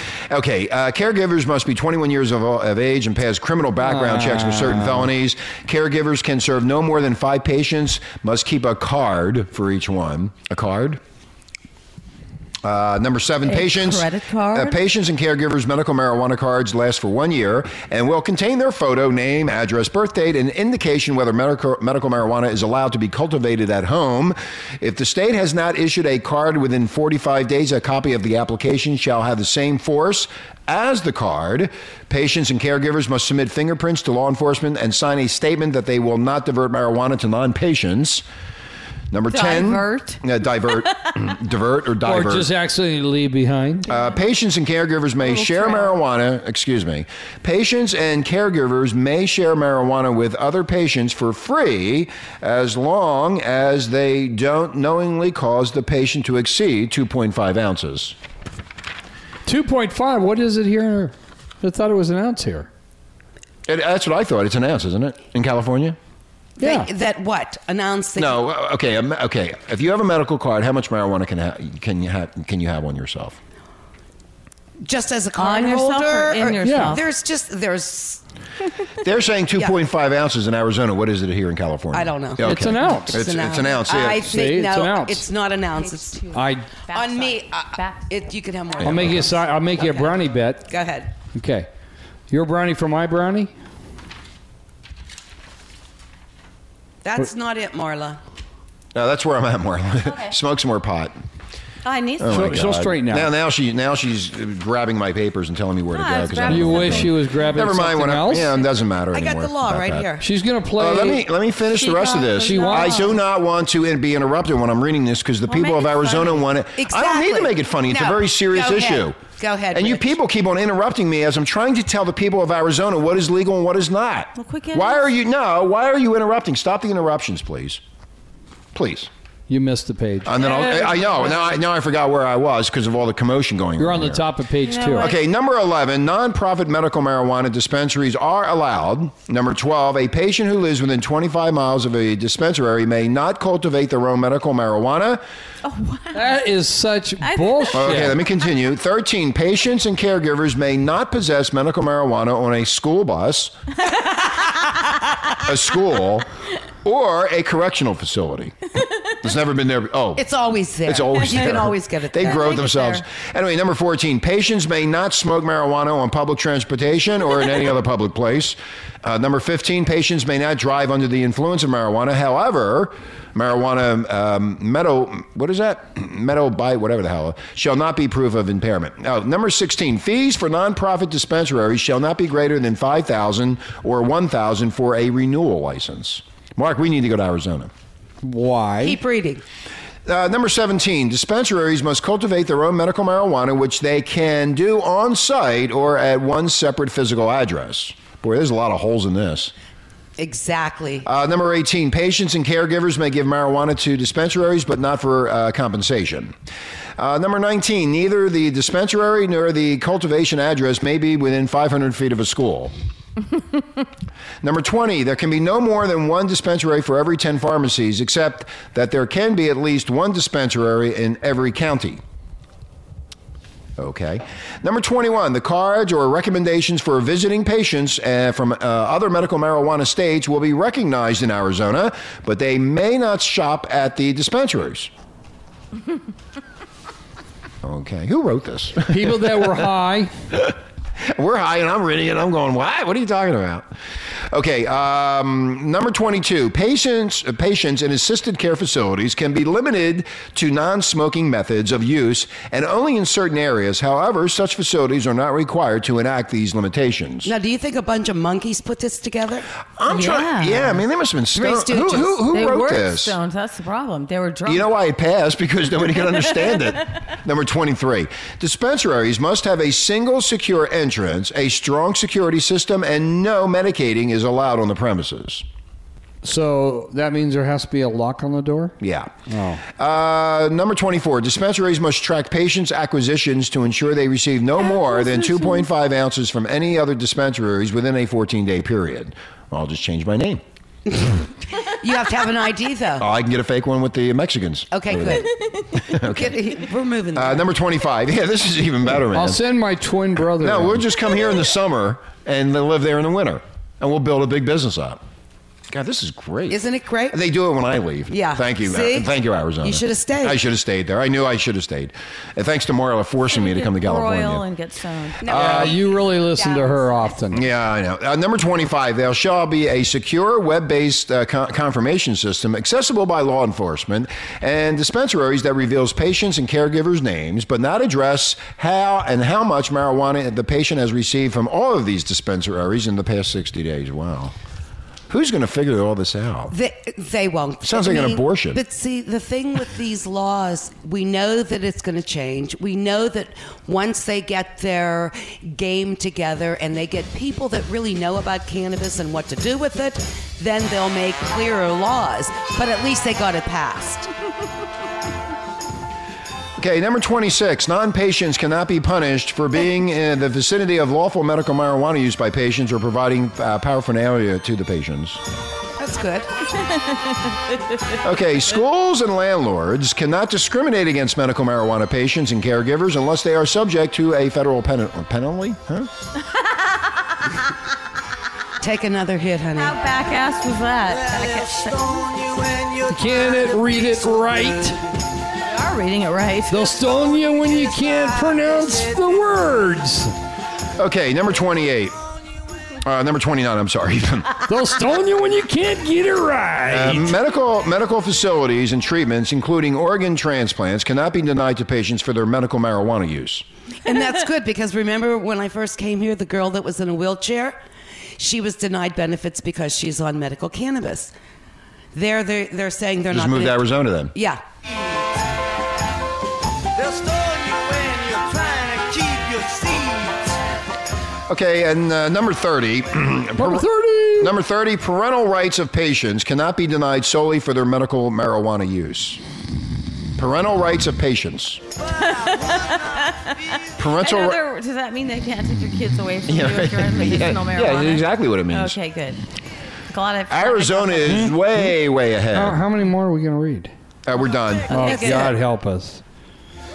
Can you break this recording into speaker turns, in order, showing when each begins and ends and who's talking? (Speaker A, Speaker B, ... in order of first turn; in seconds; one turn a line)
Speaker A: 0.3-11.0
Speaker B: 3.8-5.1
Speaker A: 12.6-38.2
Speaker C: 13.4-14.8
Speaker A: 39.1-42.5
Speaker C: 39.3-40.2
Speaker C: 40.7-41.1
Speaker B: 42.0-43.9
Speaker C: 43.9-44.2
Speaker A: 43.9-58.2
Speaker C: 45.2-46.0
Speaker B: 59.5-62.7
Speaker A: 63.7-66.0
Speaker D: 66.6-68.4
Speaker B: 66.6-66.9
Speaker A: 68.2-73.4
Speaker D: 74.8-78.2
Speaker C: 75.4-77.0
Speaker B: 76.6-77.0
Speaker A: 79.0-84.3
Speaker D: 81.9-86.2
Speaker B: 82.4-83.2
Speaker B: 84.1-85.3
Speaker C: 85.8-88.1
Speaker B: 86.3-86.7
Speaker D: 86.9-91.1
Speaker A: 88.8-89.3
Speaker B: 88.8-90.7
Speaker B: 91.3-91.7
Speaker B: 92.3-93.5
Speaker D: 97.0-98.2
Speaker A: 98.9-101.2
Speaker C: 100.0-100.3
Speaker C: 101.8-102.6
Speaker A: 102.2-110.1
Speaker B: 102.3-103.3
Speaker C: 105.9-107.5
Speaker B: 106.5-108.5
Speaker D: 109.1-110.3
Speaker B: 110.2-111.3
Speaker A: 110.8-119.2
Speaker C: 111.7-113.2
Speaker B: 112.4-113.1
Speaker C: 115.5-116.5
Speaker D: 116.8-120.1
Speaker A: 119.7-127.8
Speaker C: 124.3-125.1
Speaker A: 128.7-129.1
Speaker B: 129.5-130.4
Speaker A: 130.2-134.3
Speaker C: 130.4-131.6
Speaker B: 133.8-135.1
Speaker C: 134.6-135.2
Speaker A: 134.9-145.2
Speaker C: 145.6-146.4
Speaker B: 146.1-148.2
Speaker C: 147.2-148.1
Speaker A: 147.7-153.6
Speaker A: 155.4-156.3
Speaker A: 156.8-158.6
Speaker A: 159.2-160.2
Speaker D: 160.2-162.7
Speaker A: 160.8-187.7
Speaker C: 161.2-161.6
Speaker C: 162.2-163.0
Speaker B: 188.2-189.0
Speaker D: 188.8-189.4
Speaker A: 190.1-199.5
Speaker D: 200.2-201.1
Speaker A: 201.1-206.3
Speaker A: 207.0-212.7
Speaker A: 214.4-222.0
Speaker A: 223.8-234.9
Speaker A: 237.6-239.5
Speaker B: 238.8-240.1
Speaker A: 240.3-243.7
Speaker A: 244.3-257.3
Speaker D: 257.2-259.5
Speaker A: 259.8-263.2
Speaker C: 259.9-260.8
Speaker D: 261.3-262.2
Speaker C: 262.3-264.7
Speaker A: 264.5-275.4
Speaker B: 276.2-278.8
Speaker A: 278.8-279.1
Speaker B: 279.3-279.6
Speaker A: 279.7-290.4
Speaker D: 291.8-293.1
Speaker A: 293.0-296.4
Speaker D: 294.7-297.5
Speaker A: 297.1-299.4
Speaker B: 299.1-300.8
Speaker A: 300.4-305.0
Speaker A: 305.7-314.4
Speaker D: 306.5-307.2
Speaker D: 308.1-309.1
Speaker D: 309.6-310.4
Speaker C: 313.3-315.3
Speaker D: 315.2-317.2
Speaker B: 315.3-317.5
Speaker A: 315.3-315.7
Speaker A: 317.3-334.3
Speaker A: 335.1-336.5
Speaker D: 336.5-354.1
Speaker A: 337.6-338.6
Speaker A: 356.6-365.2
Speaker D: 365.8-366.3
Speaker A: 368.0-375.9
Speaker D: 378.6-379.8
Speaker C: 379.6-382.1
Speaker E: 380.9-384.8
Speaker B: 382.9-384.8
Speaker C: 385.5-386.7
Speaker B: 386.5-390.1
Speaker E: 387.1-389.4
Speaker A: 390.8-391.9
Speaker A: 392.8-394.5
Speaker B: 394.5-397.1
Speaker A: 396.7-403.4
Speaker D: 403.8-407.6
Speaker D: 408.2-411.1
Speaker D: 411.9-414.4
Speaker A: 413.1-414.1
Speaker E: 416.8-420.4
Speaker A: 421.3-423.7
Speaker B: 423.4-424.3
Speaker A: 424.2-429.2
Speaker A: 430.2-431.6
Speaker E: 431.9-433.6
Speaker C: 432.0-439.2
Speaker A: 433.8-434.4
Speaker A: 436.3-438.8
Speaker C: 439.9-441.3
Speaker A: 440.3-442.6
Speaker B: 441.1-441.4
Speaker B: 442.3-443.7
Speaker A: 444.1-445.0
Speaker B: 444.7-446.0
Speaker D: 444.7-445.3